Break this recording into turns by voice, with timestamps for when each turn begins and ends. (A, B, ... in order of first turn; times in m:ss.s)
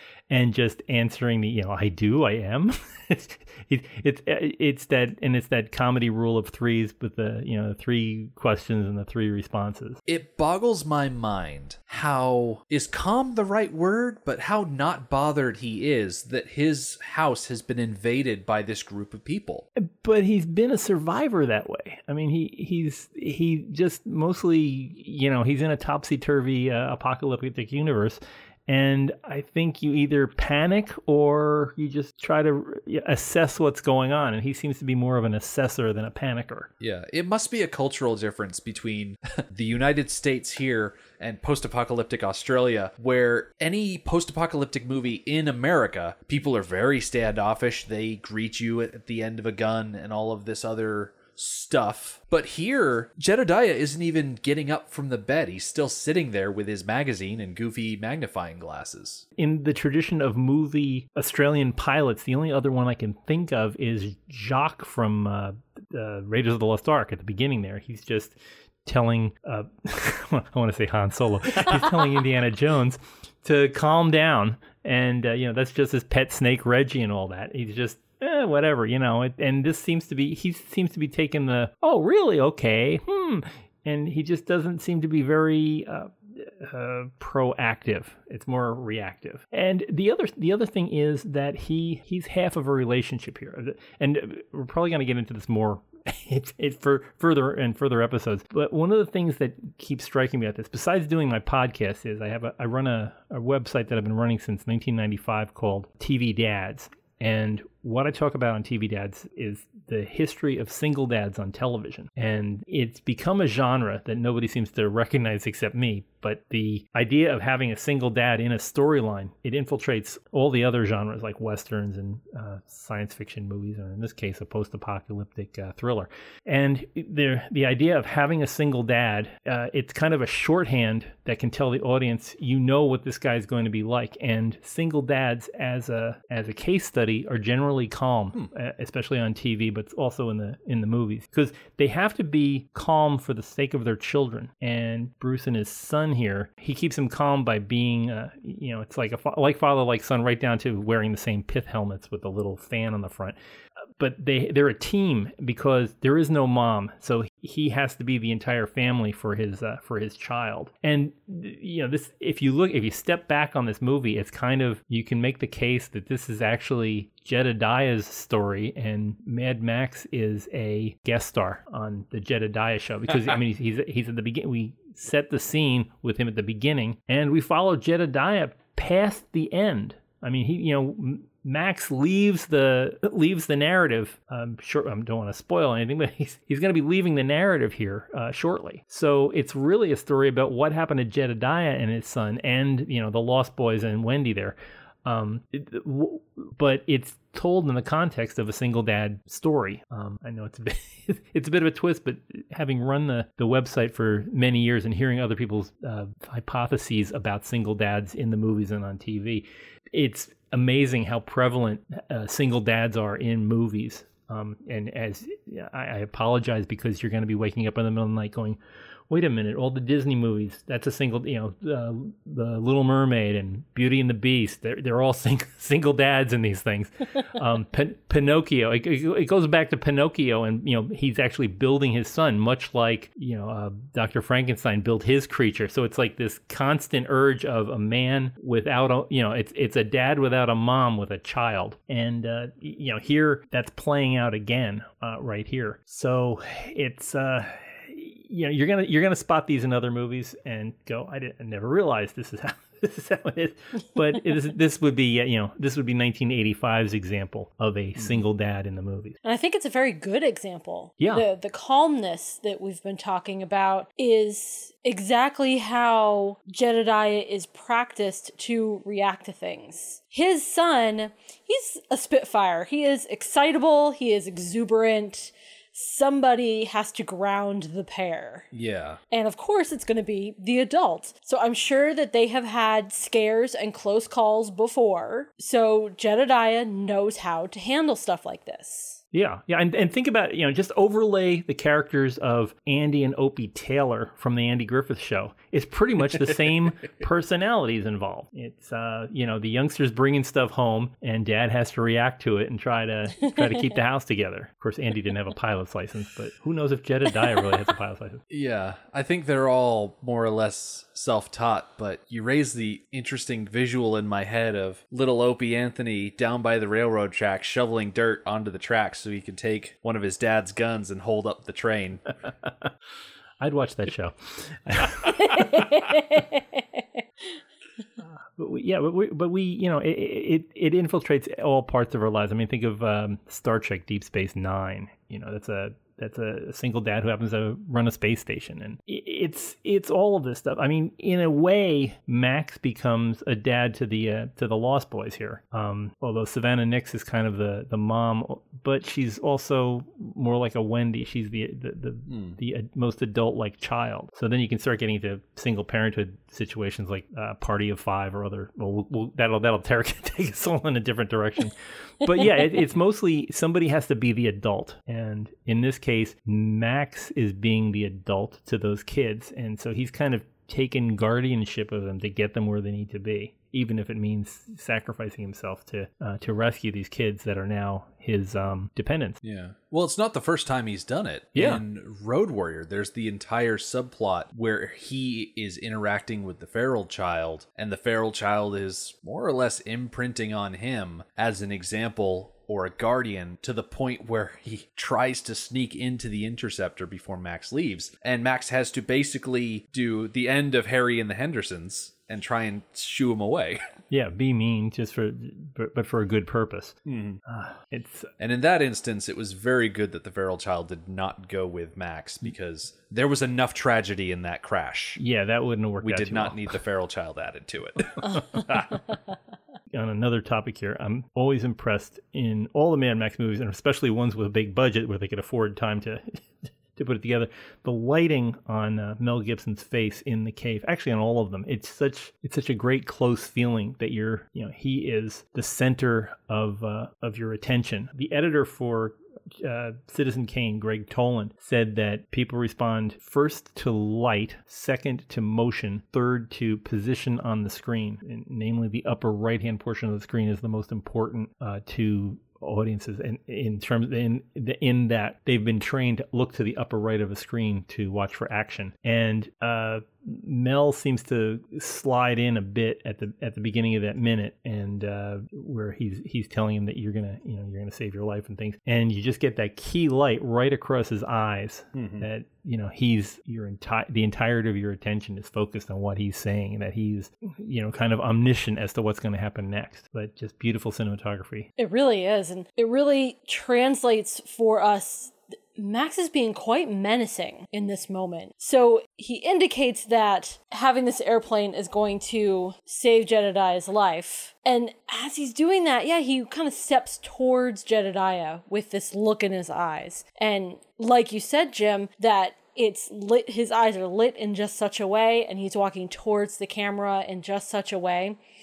0:00.3-0:10.0 A
0:10.0-0:19.6 B
0:19.8-0:36.7 A
0:36.8-0:59.2 B
0:59.4-2:33.4 A
2:34.0-3:38.6 A
2:53.1-2:53.4 B
3:39.1-4:19.2 A
4:18.0-4:18.2 B
4:19.2-4:38.5 C
4:21.0-4:21.2 A
4:38.5-4:39.0 B
4:39.1-4:49.0 C
4:49.1-5:08.2 A
5:08.3-5:22.1 B
5:23.4-5:25.7 A
5:25.2-5:26.8 C
5:28.2-6:19.2 A
5:52.1-5:52.4 B
6:19.2-6:43.6 B
6:21.3-6:21.6 A
6:43.9-6:48.1 A
6:46.8-6:47.2 B
6:48.2-6:55.0 B
6:55.0-6:56.5 A
6:55.8-6:58.8 B
6:59.7-8:01.5 A
7:51.7-7:52.1 B
8:01.6-8:28.2 C